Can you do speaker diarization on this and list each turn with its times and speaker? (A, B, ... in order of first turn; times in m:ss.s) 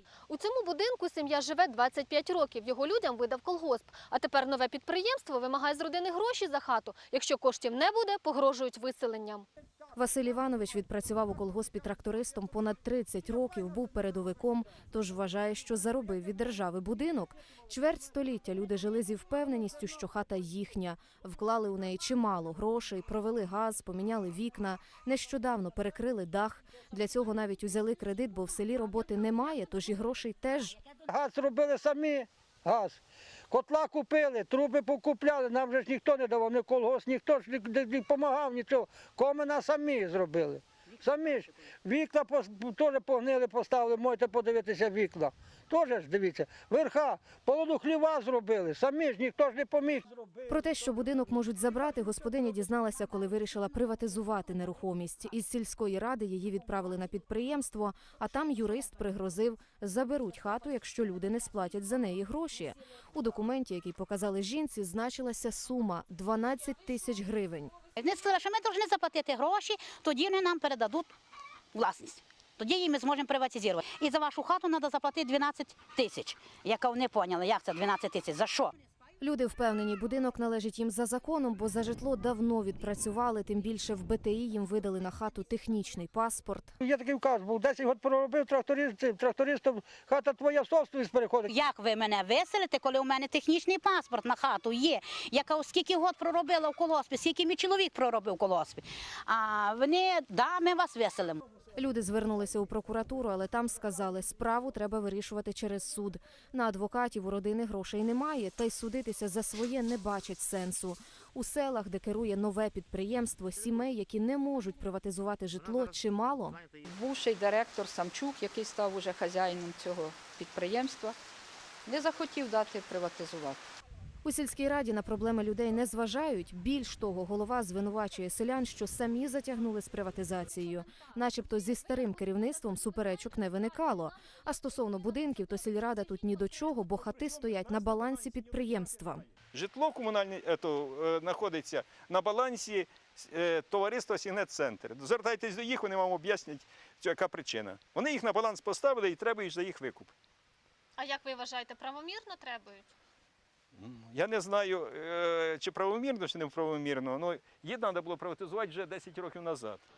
0:00.3-0:09.4 A
0:10.0-0:30.8 B
0:31.1-0:33.0 C
0:33.5-0:50.3 C
0:50.5-1:07.7 B
1:08.0-1:11.1 D
1:11.7-1:18.7 D
1:19.2-1:26.8 B
1:26.8-1:31.5 C
1:31.5-1:41.4 D
1:41.8-1:56.6 B
1:56.8-2:01.2 E
2:01.8-2:03.6 E
2:04.2-2:19.2 B
2:19.5-2:30.1 F
2:31.0-2:32.9 A
2:33.8-2:39.8 F